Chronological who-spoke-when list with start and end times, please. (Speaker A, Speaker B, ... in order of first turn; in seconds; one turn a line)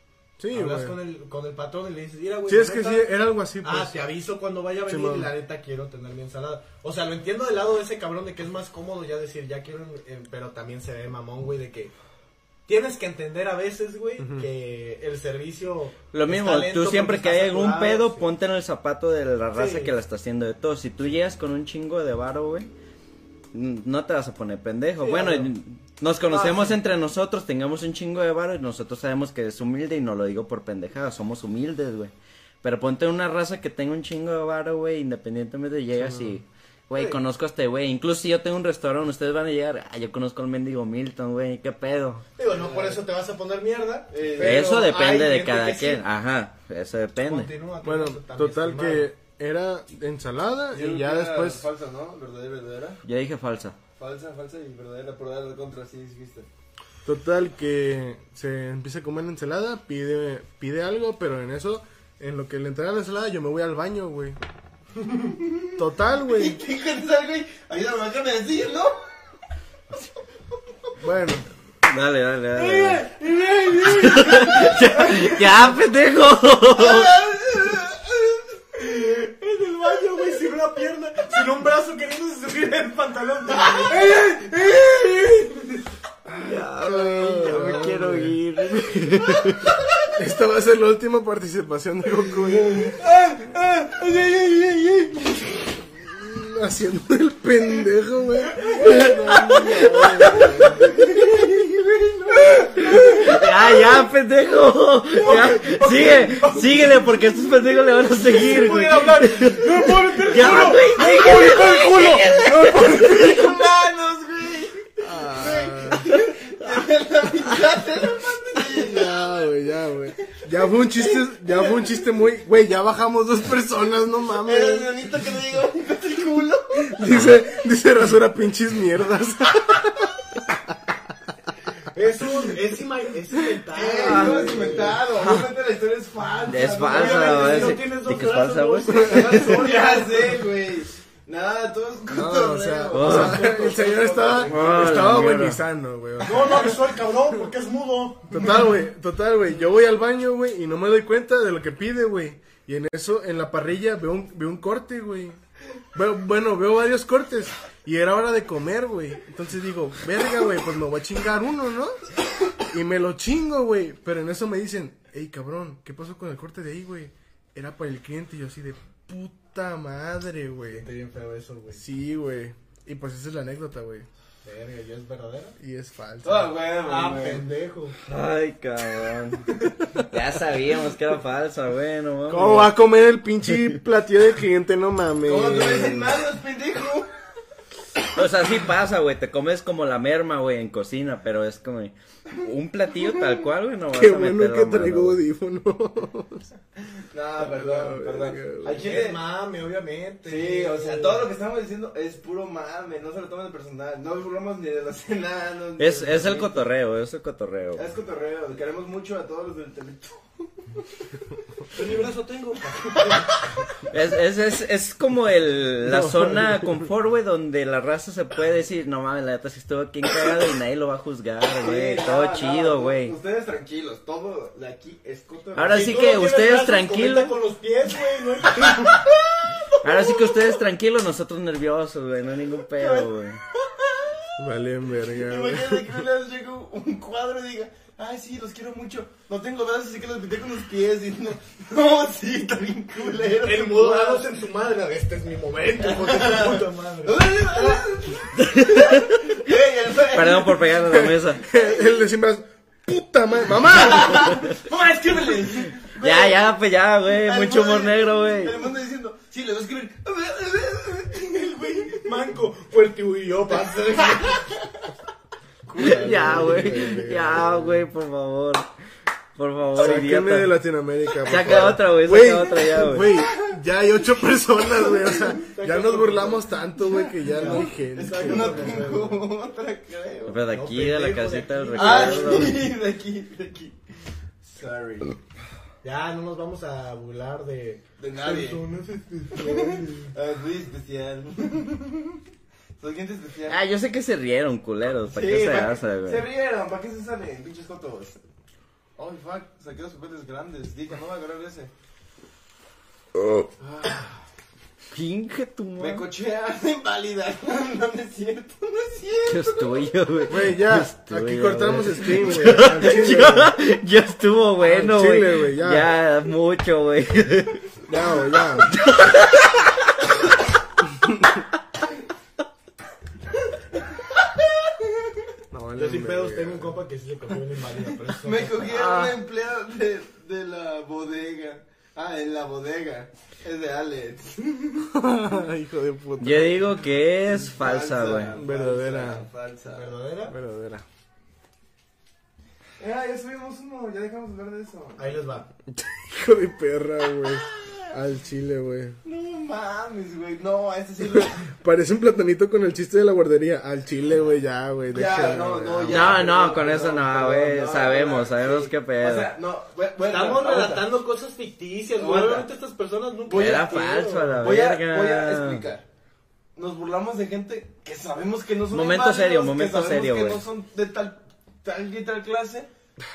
Speaker A: 0.4-1.0
Speaker B: 0.5-3.1
Speaker A: 2.5-4.0
Speaker B: 3.6-11.9
Speaker A: 4.9-5.3
Speaker B: 12.7-18.3
Speaker A: 14.2-14.5
Speaker C: 16.1-22.7
Speaker B: 19.5-19.9
Speaker C: 23.5-42.2
Speaker B: 25.0-25.5
Speaker B: 26.3-26.8
Speaker A: 36.0-36.4
Speaker B: 42.4-46.0
Speaker D: 42.5-43.0
Speaker D: 44.1-44.7
Speaker C: 44.4-47.5
Speaker B: 47.2-49.1
Speaker A: 47.8-51.7
Speaker D: 50.7-53.0
Speaker C: 53.0-53.8
Speaker D: 54.0-56.5
Speaker A: 57.0-64.4
Speaker D: 65.1-69.0
Speaker A: 65.8-66.6
Speaker A: 71.0-71.5
Speaker C: 71.8-73.1
Speaker B: 72.6-75.5
Speaker C: 73.8-77.1
Speaker D: 76.8-78.2
Speaker B: 78.8-85.8
Speaker C: 86.3-89.8
Speaker A: 86.8-88.4
Speaker A: 90.1-92.8
Speaker D: 92.6-95.8
Speaker A: 96.2-100.8
Speaker D: 99.0-103.4
Speaker C: 99.3-100.9
Speaker B: 100.2-100.8
Speaker C: 102.6-113.5
Speaker B: 105.2-107.0
Speaker B: 108.2-113.2
Speaker D: 112.8-119.2
Speaker A: 115.0-116.0
Speaker A: 118.7-124.9
Speaker D: 120.3-122.0
Speaker D: 124.5-127.0
Speaker A: 126.8-131.0
Speaker B: 131.9-135.0
Speaker D: 133.7-137.8
Speaker C: 133.9-135.5
Speaker C: 136.5-139.7
Speaker B: 136.9-140.3
Speaker A: 138.9-139.4
Speaker D: 139.3-145.2
Speaker A: 142.1-146.8
Speaker C: 142.9-143.5
Speaker C: 144.5-145.6
Speaker B: 146.2-148.6
Speaker A: 148.3-155.4
Speaker A: 155.9-162.1
Speaker A: 162.6-170.9
Speaker B: 170.7-171.8
Speaker A: 171.7-174.1
Speaker B: 174.4-175.6
Speaker A: 175.6-176.5
Speaker D: 176.2-177.5
Speaker B: 176.9-178.0
Speaker C: 178.1-182.7
Speaker A: 182.3-186.2
Speaker D: 185.2-187.1
Speaker C: 188.1-195.2
Speaker A: 193.9-196.5
Speaker D: 197.1-199.2
Speaker A: 197.4-198.9
Speaker B: 198.8-201.2
Speaker D: 200.2-206.7
Speaker C: 205.8-207.9
Speaker D: 207.8-210.7
Speaker B: 211.7-213.4
Speaker C: 213.9-223.1
Speaker A: 215.8-216.9
Speaker D: 221.6-226.0
Speaker C: 225.6-227.3
Speaker B: 225.7-230.3
Speaker D: 228.7-229.0
Speaker C: 229.8-233.4
Speaker D: 232.8-233.1
Speaker A: 234.4-236.0
Speaker D: 235.1-244.3
Speaker B: 243.4-247.8
Speaker D: 245.8-250.9
Speaker C: 248.4-249.2
Speaker C: 250.1-251.4
Speaker A: 250.9-254.4
Speaker D: 251.5-251.9
Speaker D: 253.7-256.6
Speaker C: 254.2-254.5
Speaker C: 256.0-258.6
Speaker D: 257.1-262.2
Speaker B: 261.9-264.5
Speaker D: 264.0-264.7
Speaker A: 265.7-267.9
Speaker D: 265.7-267.0
Speaker C: 265.8-268.6
Speaker C: 269.4-270.5
Speaker A: 269.7-279.0
Speaker C: 271.2-273.1
Speaker D: 271.4-271.7
Speaker D: 274.7-275.3
Speaker B: 275.4-276.5
Speaker D: 277.0-280.4
Speaker B: 277.4-279.2
Speaker C: 280.3-282.6
Speaker B: 280.5-282.6
Speaker D: 281.8-283.9
Speaker D: 284.4-285.1
Speaker B: 285.8-290.1
Speaker D: 288.0-288.6
Speaker D: 289.3-292.2
Speaker D: 292.8-293.6
Speaker C: 293.5-296.2
Speaker D: 295.1-298.2
Speaker D: 299.0-301.7
Speaker D: 303.6-304.1
Speaker C: 304.9-306.1
Speaker D: 305.8-309.9
Speaker C: 309.3-317.8
Speaker A: 310.3-313.5
Speaker A: 314.6-315.9
Speaker A: 317.9-318.7
Speaker C: 318.6-319.8
Speaker A: 320.9-321.4
Speaker D: 324.0-324.7
Speaker A: 325.5-326.8
Speaker B: 325.8-328.8
Speaker D: 328.1-334.9
Speaker A: 328.7-329.2
Speaker A: 334.9-336.7
Speaker C: 336.2-338.4
Speaker D: 337.4-339.9
Speaker A: 338.3-339.3
Speaker B: 339.7-340.4
Speaker A: 340.3-340.9
Speaker D: 342.8-345.3
Speaker B: 345.0-345.5
Speaker A: 345.7-349.0
Speaker D: 349.0-351.5
Speaker A: 351.1-356.2
Speaker D: 354.9-360.9
Speaker C: 355.9-359.3
Speaker B: 360.1-364.5
Speaker D: 362.0-362.5
Speaker D: 363.3-363.9
Speaker C: 363.3-365.7
Speaker D: 364.4-365.9
Speaker D: 366.6-372.7
Speaker C: 368.7-370.4